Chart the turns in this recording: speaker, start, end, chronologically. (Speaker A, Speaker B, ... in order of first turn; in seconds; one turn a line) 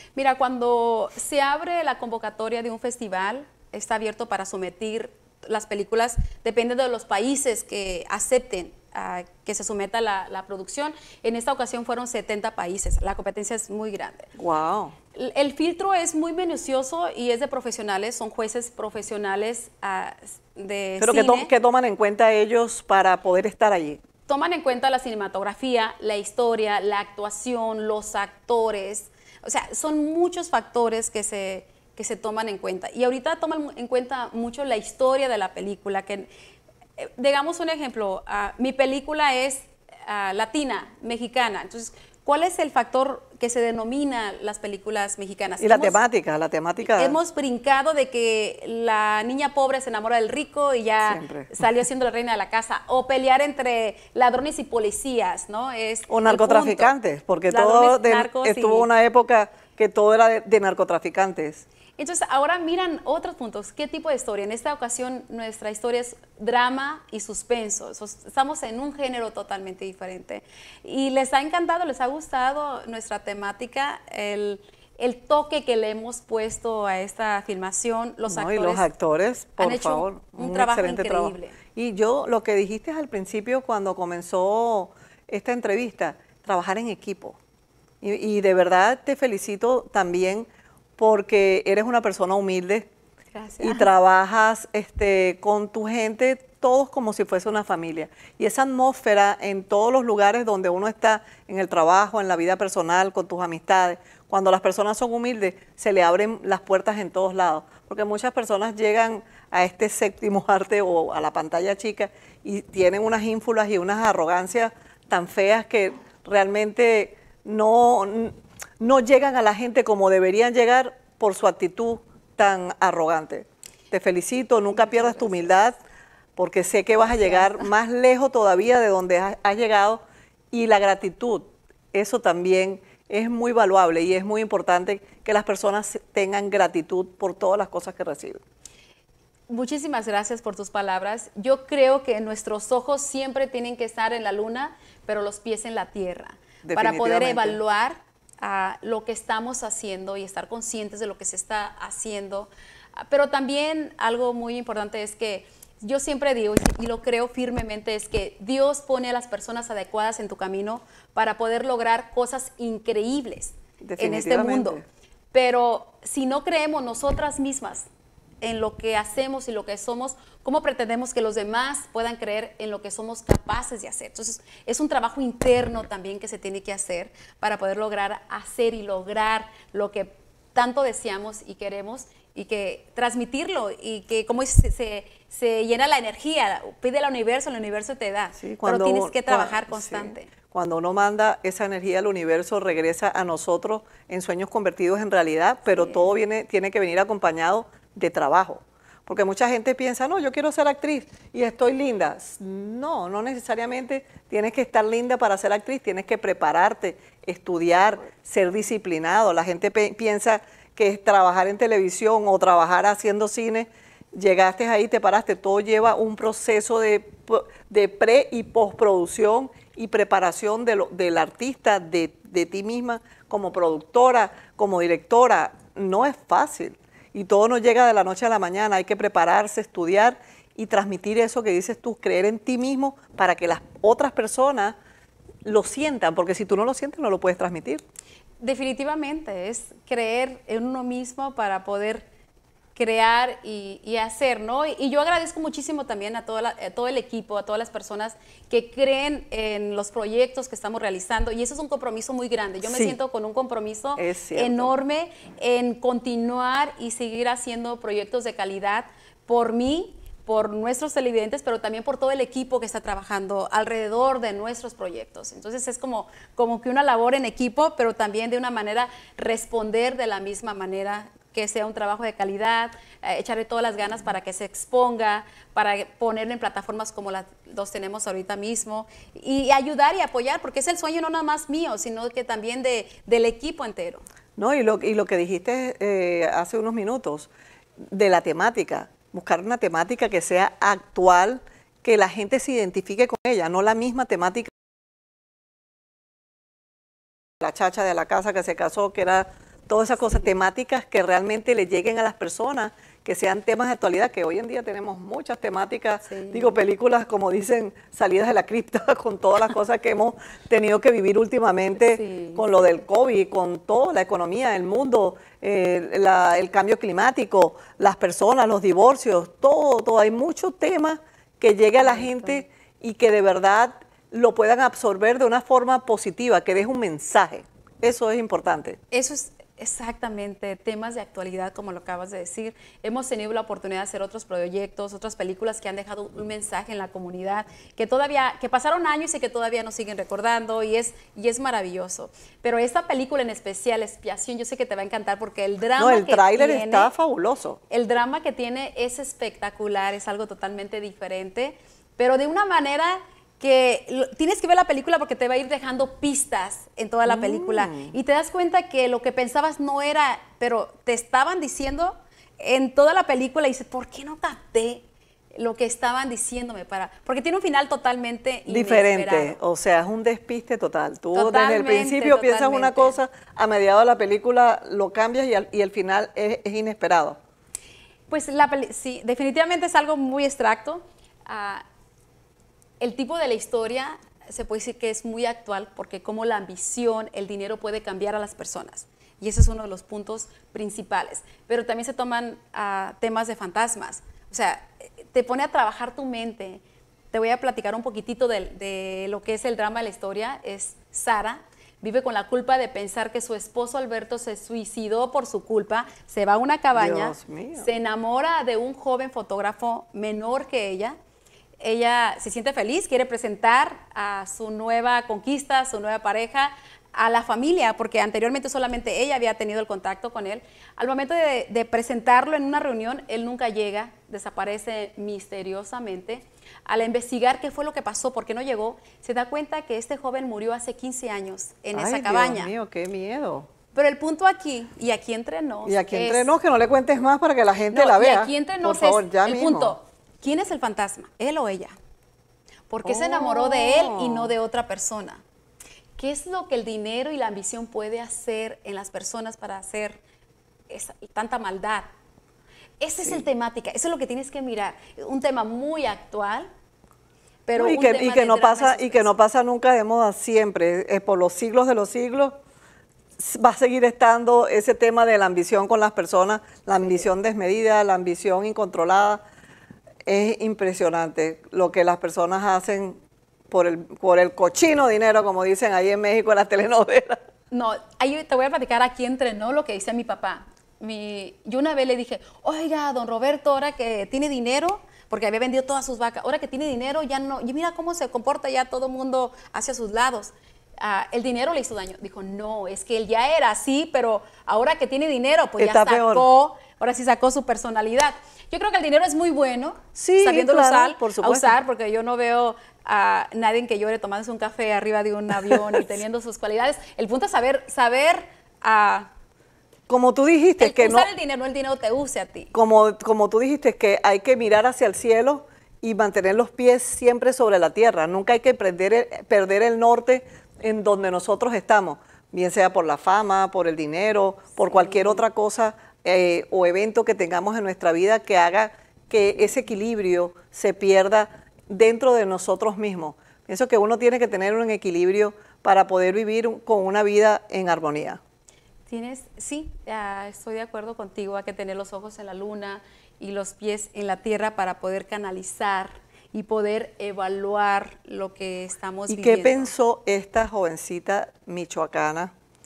Speaker A: 0.1-14.3
Speaker B: 14.4-14.9
Speaker A: 15.1-21.5
Speaker B: 21.0-24.0
Speaker A: 24.3-36.3
Speaker A: 37.0-46.0
Speaker B: 45.6-47.1
Speaker A: 46.8-56.9
Speaker B: 51.0-51.7
Speaker B: 56.1-61.6
Speaker A: 57.5-58.9
Speaker A: 62.0-78.9
Speaker B: 78.3-87.4
Speaker A: 79.6-81.5
Speaker B: 88.0-92.9
Speaker A: 93.3-93.9
Speaker B: 93.6-125.8
Speaker A: 124.8-125.3
Speaker B: 126.3-138.4
Speaker A: 127.2-127.5
Speaker A: 139.5-164.8
Speaker B: 146.6-147.6
Speaker B: 163.8-164.8
Speaker A: 165.3-167.9
Speaker A: 168.4-190.3
Speaker B: 188.4-234.8
Speaker A: 195.8-196.0
Speaker B: 235.4-237.8
Speaker A: 238.4-242.1
Speaker A: 242.8-284.0
Speaker B: 252.6-252.9
Speaker B: 254.0-254.7
Speaker B: 284.4-294.5
Speaker B: 297.4-328.8
Speaker A: 306.0-306.5
Speaker A: 311.8-312.4
Speaker A: 321.8-322.4
Speaker A: 328.9-346.9
Speaker B: 345.8-347.6
Speaker A: 347.7-364.8
Speaker B: 357.0-357.9
Speaker A: 365.3-369.4
Speaker B: 368.5-377.2
Speaker A: 371.1-373.0
Speaker A: 378.1-381.6
Speaker A: 382.8-396.6
Speaker A: 397.1-411.0
Speaker B: 406.7-407.7
Speaker A: 411.6-432.5
Speaker B: 431.7-433.5
Speaker A: 433.7-436.3
Speaker B: 435.6-439.8
Speaker A: 437.7-441.7
Speaker A: 442.7-445.2
Speaker B: 442.8-444.3
Speaker A: 446.0-450.0
Speaker A: 450.7-451.9
Speaker A: 452.8-456.5
Speaker A: 457.4-459.1
Speaker B: 457.5-462.4
Speaker B: 463.2-469.2
Speaker B: 470.1-477.2
Speaker A: 477.5-509.1
Speaker B: 495.6-496.3
Speaker B: 499.9-501.6
Speaker B: 505.3-505.8
Speaker B: 509.9-511.1
Speaker A: 510.6-512.5
Speaker B: 512.5-538.2
Speaker A: 524.7-525.2
Speaker A: 538.9-549.7
Speaker B: 549.1-552.3